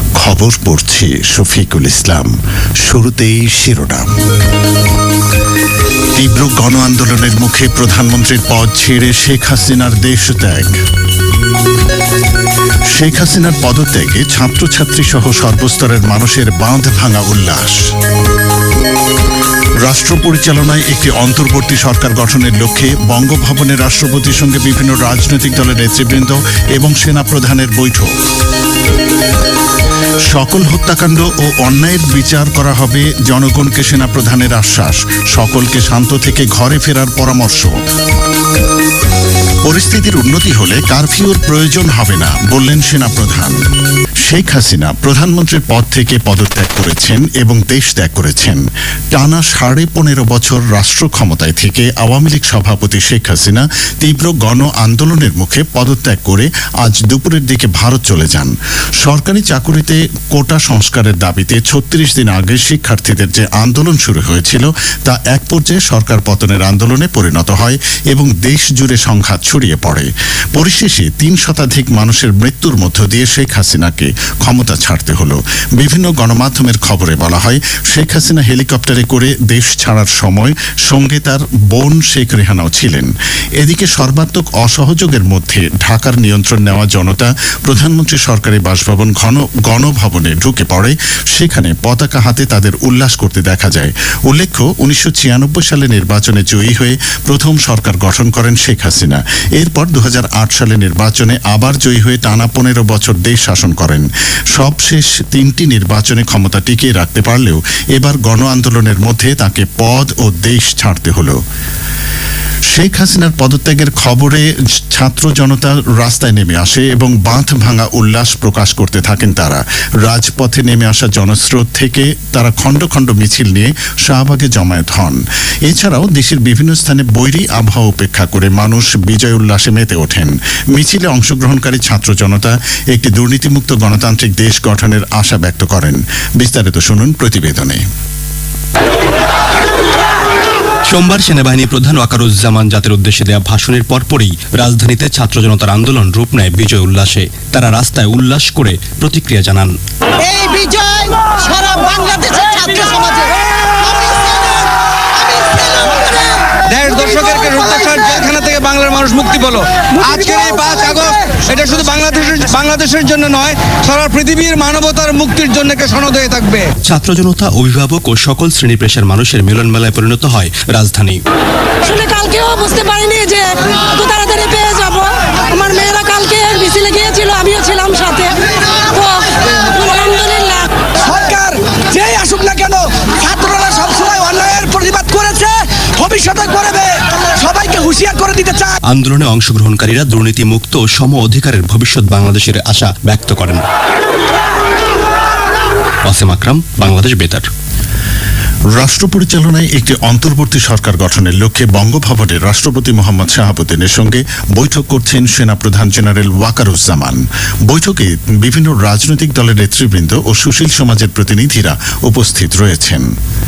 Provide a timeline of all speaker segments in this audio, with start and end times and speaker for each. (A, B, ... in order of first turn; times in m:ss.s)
0:00.2-0:02.3 A
0:02.8-0:04.1 A
0:06.2-0:10.7 A
0:12.9-0:17.8 A
0:19.8-0:28.1 A
0:30.3-0:37.7 A
0:39.6-0:43.6 A
0:44.3-0:48.6 A
0:49.1-1:51.4 A
1:52.7-2:17.8 A
2:20.9-2:29.7 B
2:31.4-2:33.1 C
2:36.6-2:46.7 D
2:46.8-2:51.2 B
2:51.8-3:00.9 E
3:01.0-3:08.8 C
3:08.8-3:13.6 B
3:16.1-3:17.5 B
3:18.7-3:33.0 A